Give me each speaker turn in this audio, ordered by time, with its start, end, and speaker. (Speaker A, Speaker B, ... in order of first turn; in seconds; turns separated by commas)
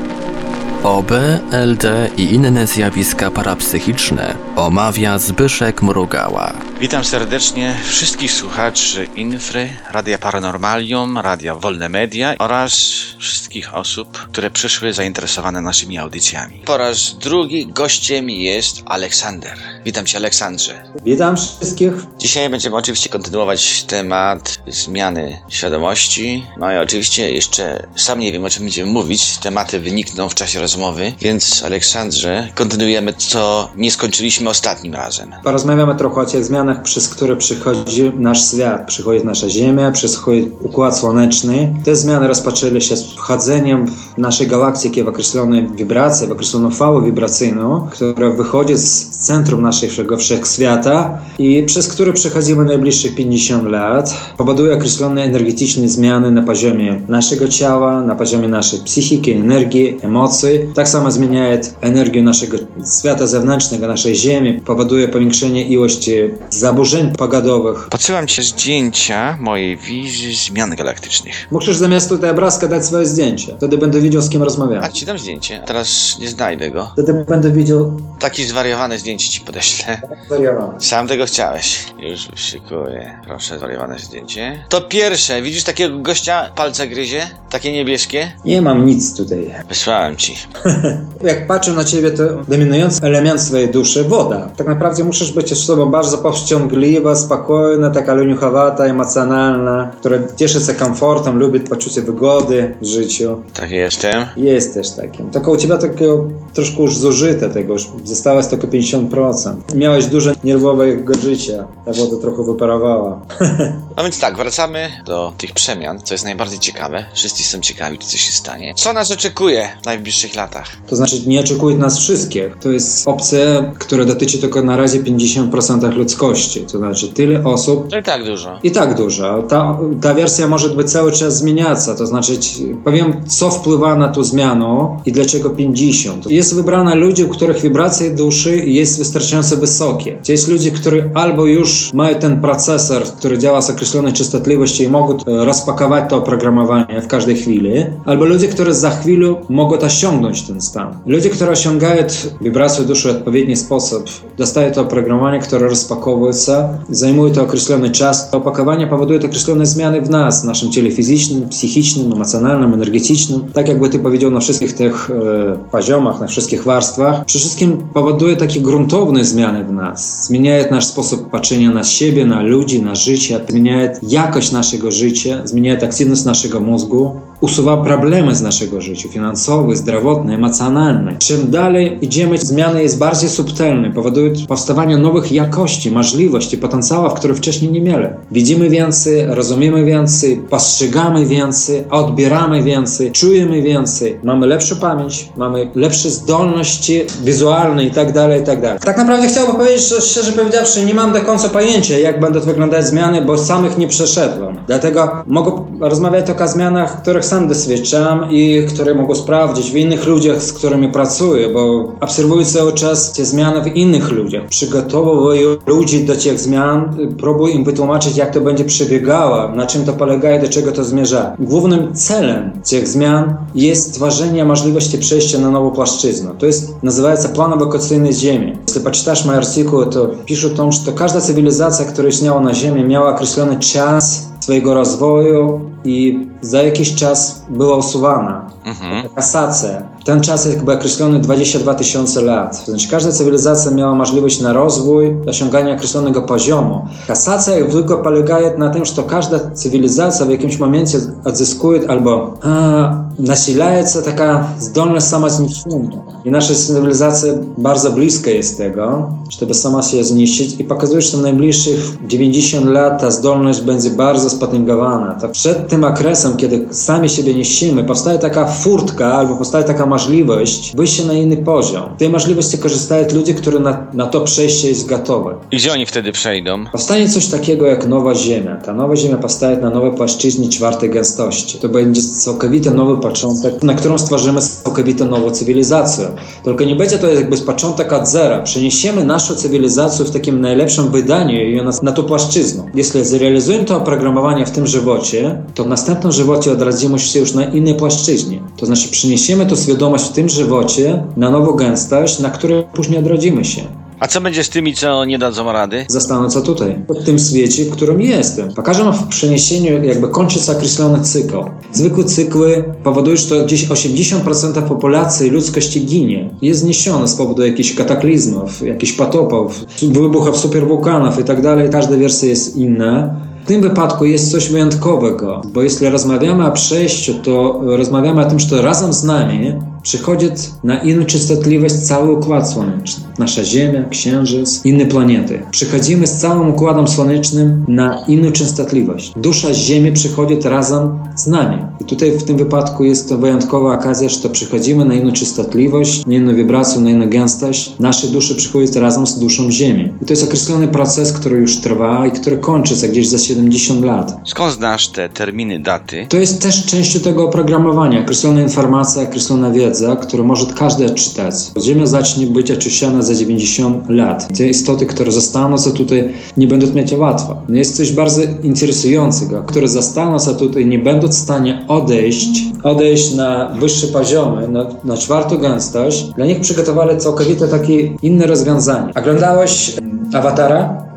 Speaker A: 0.8-6.6, Speaker B: 6.8-20.8, Speaker C: 21.0-22.1, Speaker B: 22.2-35.4, Speaker C: 35.4-67.9, Speaker B: 67.9-71.5, Speaker C: 71.5-75.0, Speaker B: 74.8-76.9, Speaker C: 77.0-78.1, Speaker B: 78.2-80.1, Speaker C: 80.1-80.8, Speaker B: 80.8-88.4, Speaker C: 88.4-89.7, Speaker B: 89.7-90.5, Speaker C: 90.6-103.5, Speaker B: 103.5-104.4, Speaker C: 104.4-113.8, Speaker B: 113.9-120.8, Speaker C: 120.9-127.9, Speaker B: 127.9-128.6, Speaker C: 128.6-275.5, Speaker B: 238.7-239.1, Speaker B: 275.5-276.7, Speaker C: 276.7-303.7, Speaker B: 304.0-305.9, Speaker C: 305.9-354.2, Speaker B: 354.3-356.1, Speaker C: 356.1-380.9